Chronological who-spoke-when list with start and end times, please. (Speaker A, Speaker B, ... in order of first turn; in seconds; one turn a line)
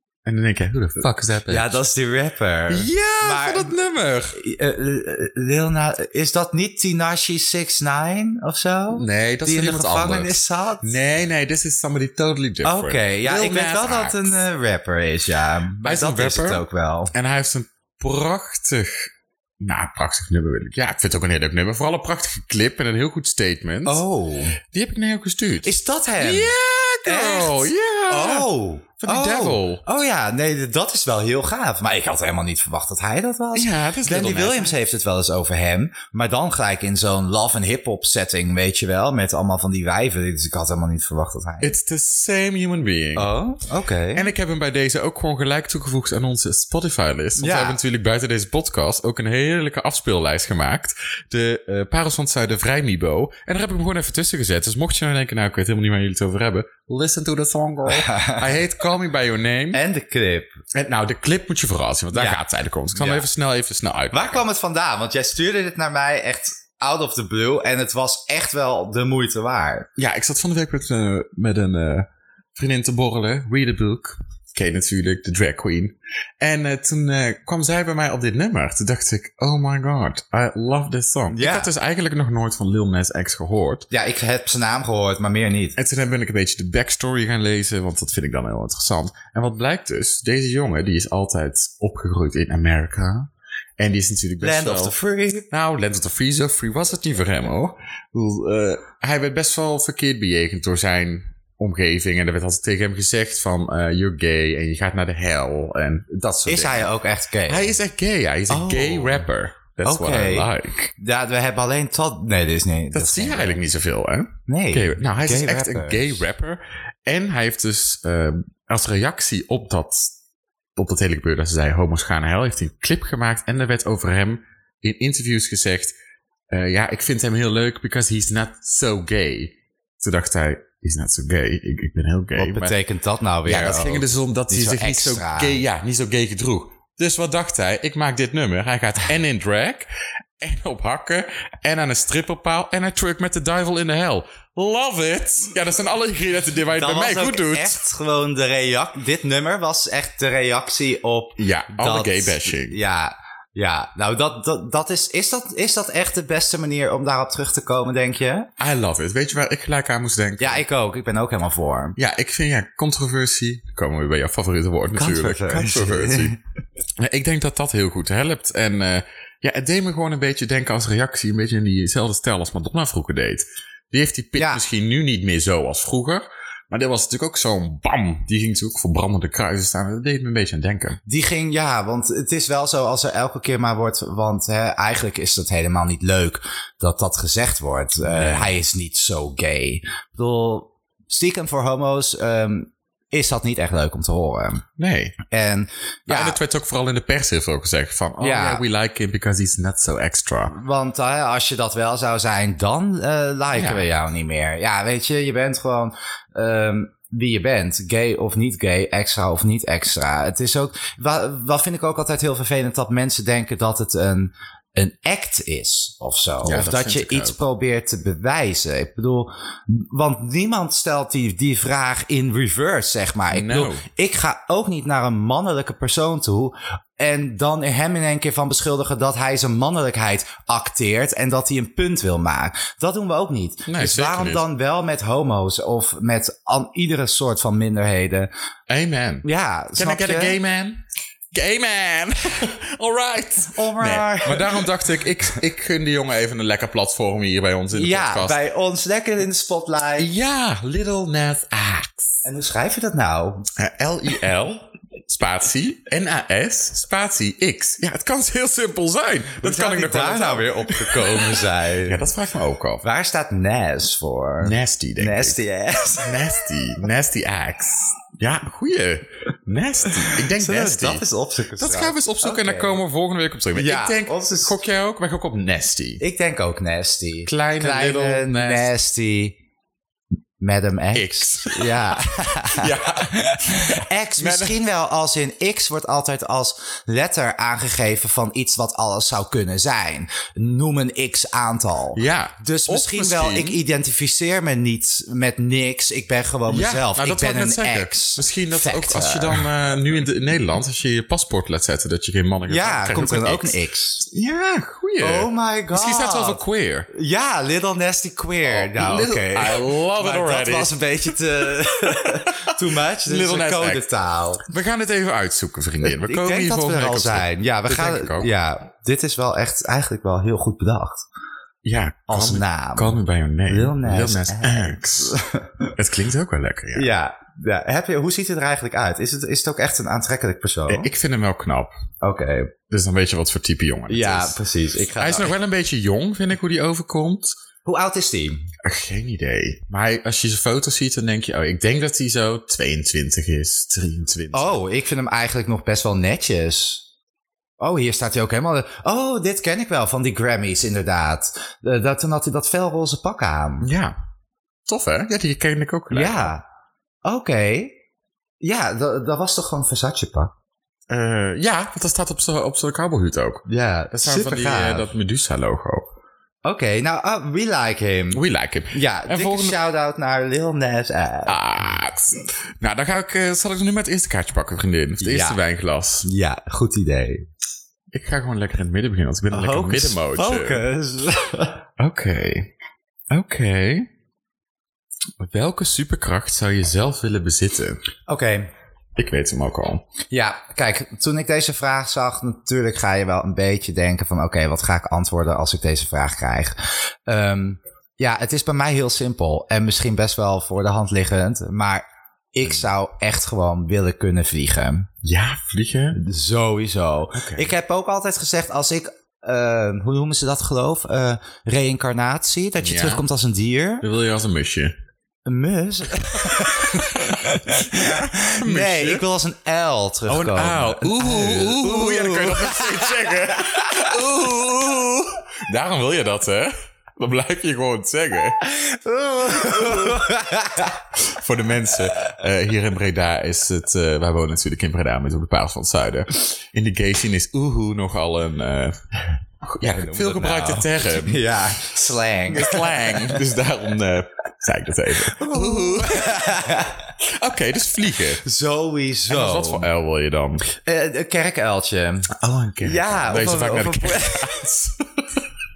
Speaker A: 0.2-1.8
Speaker B: 1.5-3.8
Speaker A: 2.7-4.4
Speaker B: 4.3-10.9
Speaker A: 8.9-14.4
Speaker B: 12.6-17.1
Speaker A: 15.8-24.0
Speaker B: 23.8-24.6
Speaker A: 24.6-29.8
Speaker B: 25.6-26.5
Speaker B: 27.0-41.7
Speaker A: 33.5-34.8
Speaker A: 41.6-43.3
Speaker B: 43.1-44.3
Speaker A: 44.1-59.8
Speaker B: 47.4-47.8
Speaker B: 57.9-58.5
Speaker B: 59.7-60.5
Speaker A: 60.7-64.4
Speaker B: 62.1-63.3
Speaker B: 64.1-69.9
Speaker A: 70.0-83.9
Speaker B: 81.3-81.7
Speaker B: 83.9-85.8
Speaker A: 85.8-95.0
Speaker B: 94.4-95.5
Speaker A: 95.5-106.9
Speaker B: 106.5-107.7
Speaker A: 107.5-110.9
Speaker B: 108.5-109.2
Speaker B: 109.8-113.6
Speaker A: 112.9-120.2
Speaker B: 114.5-116.2
Speaker A: 120.8-125.9
Speaker A: 126.5-132.7
Speaker B: 132.3-135.6
Speaker A: 133.4-139.9
Speaker A: 140.4-147.8
Speaker B: 146.7-158.5
Speaker A: 151.4-152.8
Speaker A: 158.6-160.6
Speaker B: 160.4-162.0
Speaker A: 161.9-166.3
Speaker B: 164.9-166.3
Speaker A: 167.0-181.0
Speaker B: 174.3-174.6
Speaker B: 181.1-194.7
Speaker A: 188.0-188.5
Speaker A: 194.8-195.2
Speaker B: 195.3-196.4
Speaker A: 196.1-200.5
Speaker B: 198.2-198.6
Speaker B: 200.5-238.3
Speaker A: 203.5-203.8
Speaker A: 216.4-217.4
Speaker A: 223.3-223.8
Speaker A: 233.7-234.4
Speaker A: 238.7-248.4
Speaker B: 239.2-240.4
Speaker B: 243.5-244.7
Speaker B: 247.7-250.1
Speaker A: 250.0-252.2
Speaker B: 252.2-253.5
Speaker A: 253.6-262.8
Speaker B: 259.4-262.1
Speaker B: 262.8-266.2
Speaker A: 264.4-265.4
Speaker A: 266.0-271.0
Speaker B: 270.1-272.8
Speaker A: 271.6-276.0
Speaker B: 273.5-274.6
Speaker B: 276.0-279.4
Speaker A: 277.2-278.7
Speaker B: 280.4-299.4
Speaker A: 280.9-282.0
Speaker A: 282.5-284.6
Speaker A: 291.9-293.6
Speaker A: 296.5-306.9
Speaker B: 302.5-304.1
Speaker B: 305.0-306.4
Speaker B: 306.9-314.4
Speaker A: 308.4-310.7
Speaker A: 313.0-313.9
Speaker A: 314.4-318.3
Speaker B: 315.8-321.0
Speaker A: 321.6-325.2
Speaker B: 322.1-325.7
Speaker A: 325.7-326.9
Speaker B: 326.7-330.9
Speaker A: 330.7-331.8
Speaker B: 332.0-332.5
Speaker A: 332.7-334.4
Speaker B: 333.9-335.3
Speaker A: 335.0-337.4
Speaker B: 337.6-338.5
Speaker A: 338.6-344.6
Speaker B: 344.3-346.8
Speaker B: 347.6-353.7
Speaker A: 353.6-353.9
Speaker A: 354.7-356.3
Speaker B: 355.9-356.4
Speaker B: 357.0-357.7
Speaker B: 358.4-360.3
Speaker A: 360.9-365.9
Speaker B: 363.5-364.9
Speaker B: 366.4-371.4
Speaker A: 368.1-369.6
Speaker A: 371.2-376.1
Speaker B: 375.0-375.4
Speaker B: 376.0-377.2
Speaker A: 377.9-380.6
Speaker B: 379.3-381.6
Speaker A: 381.8-382.5
Speaker A: 383.1-383.9
Speaker A: 385.2-387.8
Speaker B: 388.1-388.5
Speaker A: 388.9-389.8
Speaker B: 390.1-396.5
Speaker B: 397.1-404.9
Speaker A: 405.0-406.0
Speaker B: 405.9-413.9
Speaker A: 407.1-407.5
Speaker A: 412.6-413.0
Speaker A: 413.8-414.7
Speaker B: 415.2-423.9
Speaker A: 416.2-419.1
Speaker A: 420.1-428.4
Speaker B: 428.4-430.8
Speaker A: 429.2-430.1
Speaker A: 430.9-441.3
Speaker B: 439.6-443.2
Speaker A: 442.3-446.4
Speaker B: 445.1-446.9
Speaker A: 447.0-448.2
Speaker B: 448.2-449.7
Speaker A: 449.1-450.4
Speaker B: 450.5-452.1
Speaker A: 452.1-454.8
Speaker B: 452.6-454.4